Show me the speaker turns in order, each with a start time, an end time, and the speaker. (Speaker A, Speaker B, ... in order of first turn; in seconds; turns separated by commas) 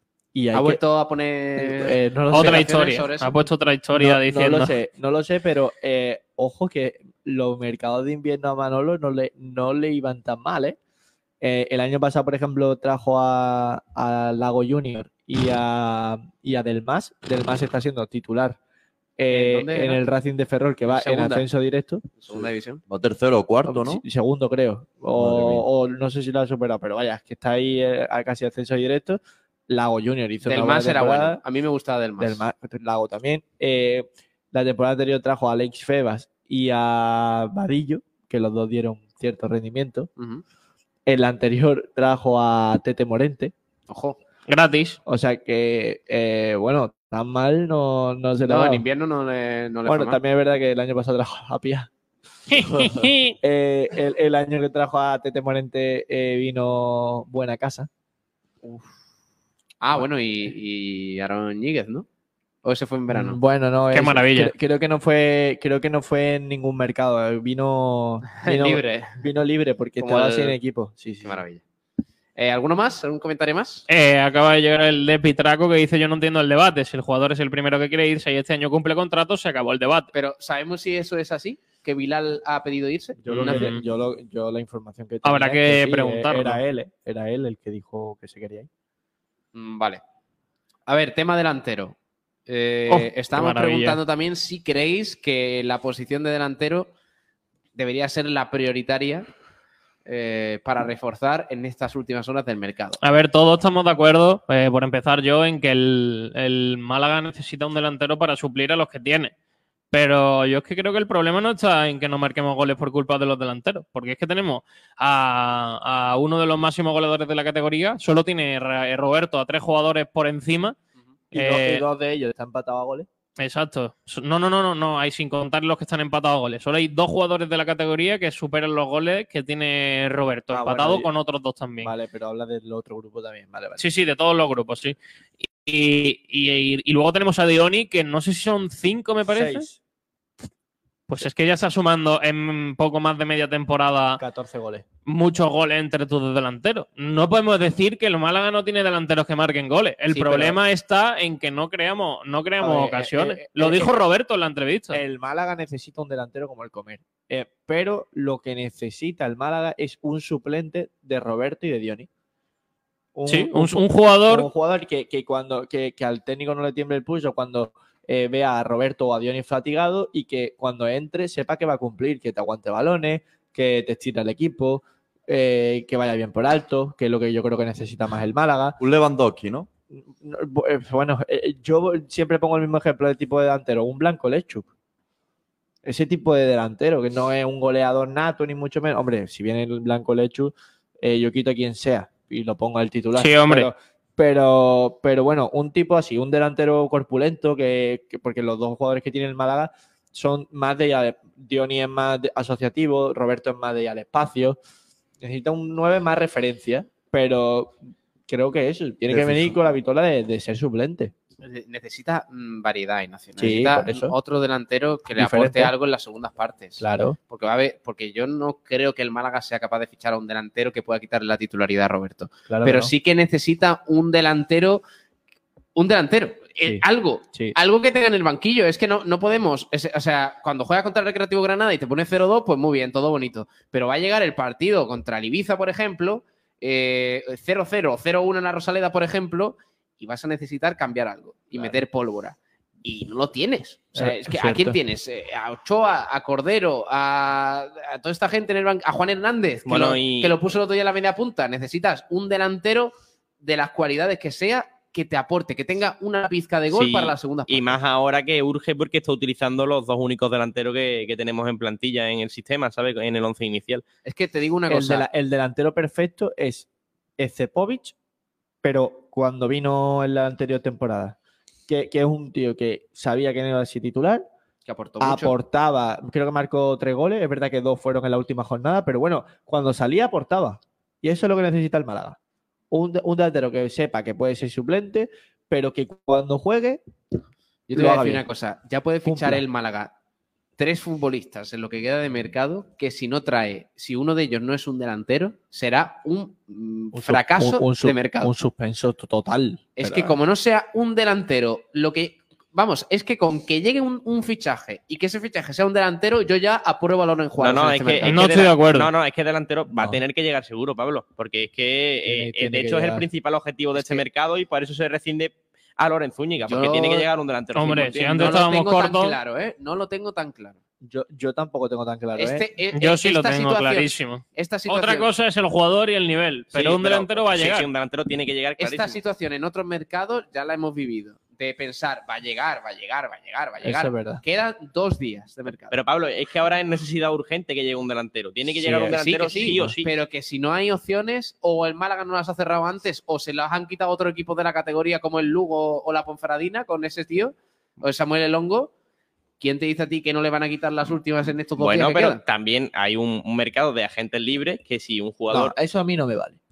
Speaker A: 0.3-0.8, Speaker B: 0.5-3.3, Speaker A: 1.6-2.7, Speaker C: 2.3-4.7, Speaker A: 3.9-10.8, Speaker A: 11.4-18.6, Speaker A: 19.2-22.0, Speaker B: 19.3-20.0, Speaker B: 20.9-21.4, Speaker B: 22.2-22.8, Speaker D: 22.9-24.0, Speaker A: 23.6-31.4, Speaker D: 25.1-25.6, Speaker B: 30.4-32.4, Speaker A: 32.2-40.1, Speaker B: 40.2-40.4, Speaker A: 41.0-43.5, Speaker B: 43.9-44.2, Speaker C: 44.5-45.0, Speaker A: 45.0-48.8, Speaker B: 48.5-50.2, Speaker A: 49.9-51.9, Speaker C: 52.5-53.4, Speaker A: 53.4-57.9, Speaker B: 59.8-62.0, Speaker B: 62.6-63.4, Speaker A: 63.1-71.4, Speaker C: 63.9-64.5, Speaker B: 68.4-69.2, Speaker B: 70.0-70.6, Speaker B: 71.2-71.6, Speaker B: 72.3-73.8, Speaker C: 73.9-80.1, Speaker B: 80.1-83.7, Speaker A: 83.2-88.7, Speaker C: 83.3-83.8, Speaker C: 85.2-86.6, Speaker B: 89.5-90.0, Speaker B: 90.9-92.0, Speaker B: 92.5-96.9, Speaker C: 92.9-94.0, Speaker B: 97.7-99.3, Speaker B: 100.0-103.0, Speaker C: 103.0-109.3, Speaker C: 109.9-120.8, Speaker A: 121.3-123.1, Speaker C: 121.3-121.8, Speaker C: 123.4-131.9, Speaker A: 130.5-131.1, Speaker A: 131.8-133.8, Speaker C: 133.8-139.7, Speaker A: 139.3-139.8, Speaker C: 141.1-144.2, Speaker A: 144.2-144.8, Speaker C: 145.1-155.0, Speaker A: 150.1-150.6, Speaker A: 152.6-153.9, Speaker A: 154.9-162.1, Speaker A: 163.1-178.8, Speaker C: 163.3-164.5, Speaker D: 178.8-179.7, Speaker A: 179.9-184.7, Speaker A: 185.8-204.6, Speaker C: 193.2-193.7, Speaker A: 205.2-211.1, Speaker D: 209.1-209.5, Speaker B: 211.4-224.8, Speaker A: 213.4-214.1, Speaker A: 215.1-215.7, Speaker A: 216.8-217.2, Speaker A: 222.5-222.9, Speaker B: 225.8-257.8, Speaker A: 226.6-227.6, Speaker A: 243.9-244.8, Speaker E: 249.7-250.4, Speaker E: 256.7-263.8, Speaker B: 264.0-265.1, Speaker A: 264.7-266.7, Speaker A: 267.2-267.9, Speaker A: 268.6-271.1, Speaker A: 271.7-274.3, Speaker B: 274.6-275.3, Speaker A: 275.0-282.2, Speaker A: 282.7-286.8, Speaker B: 287.7-289.9, Speaker A: 287.7-288.2, Speaker A: 289.0-289.4, Speaker B: 290.6-298.3, Speaker A: 296.9-300.2, Speaker B: 299.8-308.5, Speaker E: 307.4-318.3, Speaker C: 308.0-308.9, Speaker A: 309.7-310.0, Speaker A: 312.1-313.0, Speaker B: 313.7-314.0, Speaker B: 316.4-317.1, Speaker C: 317.5-319.1, Speaker B: 317.6-320.6, Speaker A: 320.8-322.4, Speaker B: 322.1-325.1, Speaker C: 322.7-327.7, Speaker E: 326.5-329.0, Speaker B: 328.6-335.8, Speaker A: 333.6-334.2, Speaker E: 335.7-339.9, Speaker A: 338.6-339.8, Speaker B: 338.8-348.7, Speaker B: 349.4-352.2, Speaker E: 351.6-355.5, Speaker A: 355.3-356.4